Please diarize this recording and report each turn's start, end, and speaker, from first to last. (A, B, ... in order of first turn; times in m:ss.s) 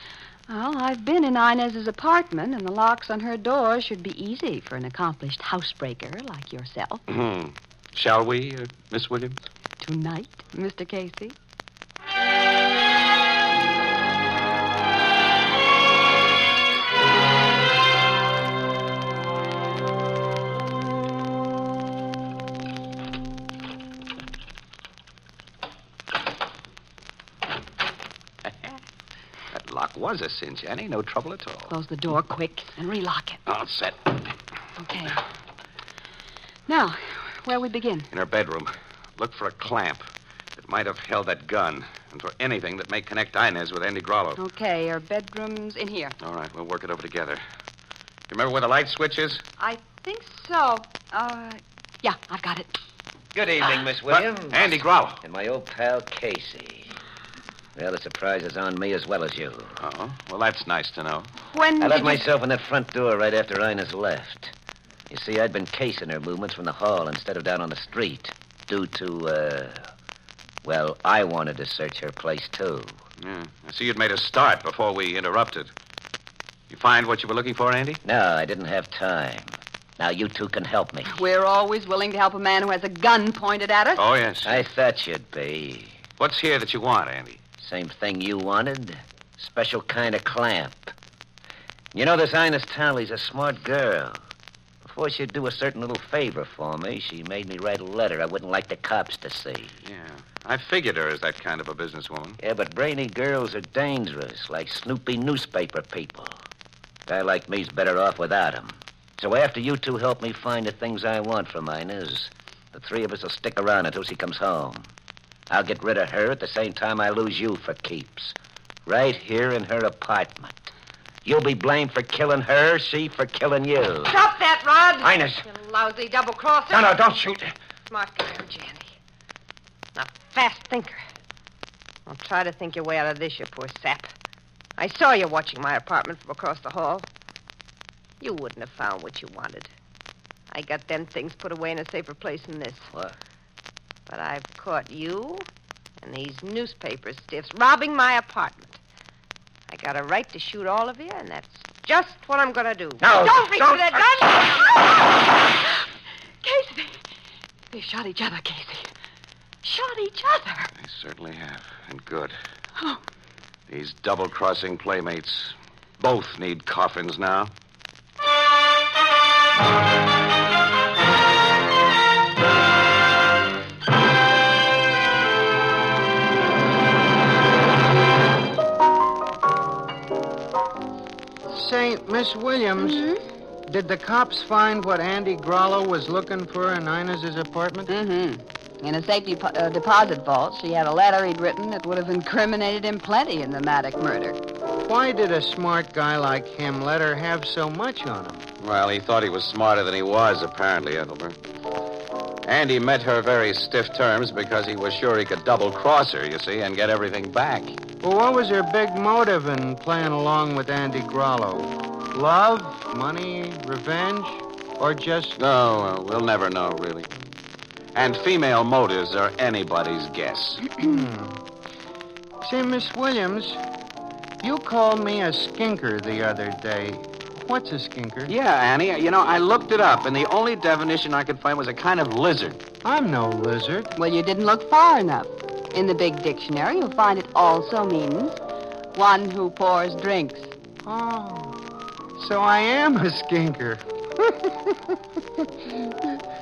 0:00.5-0:07.0 A
0:07.1-0:09.4 B
0:09.8-0:11.3 A
0:28.5-0:28.8 B
0:29.5-0:31.7 B
0:31.7-0:33.4 A
0:33.4-0:34.3 B
0:34.8-0:35.2 A
0:36.7-0:38.1 A
0:38.1-0:40.0 B
0:40.6-0:44.4 B
0:44.4-0:46.1 A
0:46.2-0:47.4 B
0:48.3-0:49.4 B
0:49.6-0:52.7 A
0:53.3-0:56.9 C
0:54.1-0:55.2 B
0:57.7-0:59.8 C
0:59.8-1:01.3 B
1:01.5-1:02.2 A
1:01.8-1:04.5 C
1:05.1-1:09.8 C
1:10.6-1:13.0 C
1:13.2-1:15.7 B
1:16.7-1:18.0 B
1:18.0-1:21.2 C
1:21.1-1:24.0 A
1:24.0-1:24.6 B
1:24.4-1:26.0 C
1:26.2-1:27.4 B
1:27.6-1:30.9 C
1:31.9-1:34.2 C
1:34.8-1:39.7 C
1:39.8-1:42.4 B
1:42.4-1:46.4 C
1:47.1-1:54.9 C
1:55.5-2:00.7 C
2:01.2-2:04.2 C
2:04.0-2:07.0 D
2:05.0-2:05.4 C
2:06.7-2:07.5 C
2:07.9-2:08.9 D
2:09.9-2:11.0 D
2:12.1-2:14.1 D
2:14.8-2:17.0 D
2:18.2-2:19.7 D
2:20.5-2:22.9 D
2:24.1-2:25.5 D
2:26.0-2:28.8 D
2:29.7-2:34.7 D
2:33.0-2:34.4 C
2:36.4-2:37.0 A
2:37.7-2:38.9 A
2:39.6-2:40.7 A
2:40.8-2:42.4 B
2:43.7-2:47.5 B
3:01.5-3:03.1 E
3:02.8-3:03.2 A
3:03.7-3:07.9 E
3:07.9-3:14.4 A
3:14.8-3:18.5 E
3:18.6-3:21.4 B
3:22.4-3:27.8 B
3:28.0-3:35.4 E
3:35.4-3:37.1 B
3:37.9-3:40.7 B
3:40.8-3:41.4 E
3:42.4-3:43.6 E
3:44.4-3:48.3 E
3:48.3-3:52.6 B
3:52.8-3:53.9 E
3:53.9-3:58.4 A
3:58.9-4:00.5 A
4:00.8-4:01.6 E
4:02.2-4:06.2 E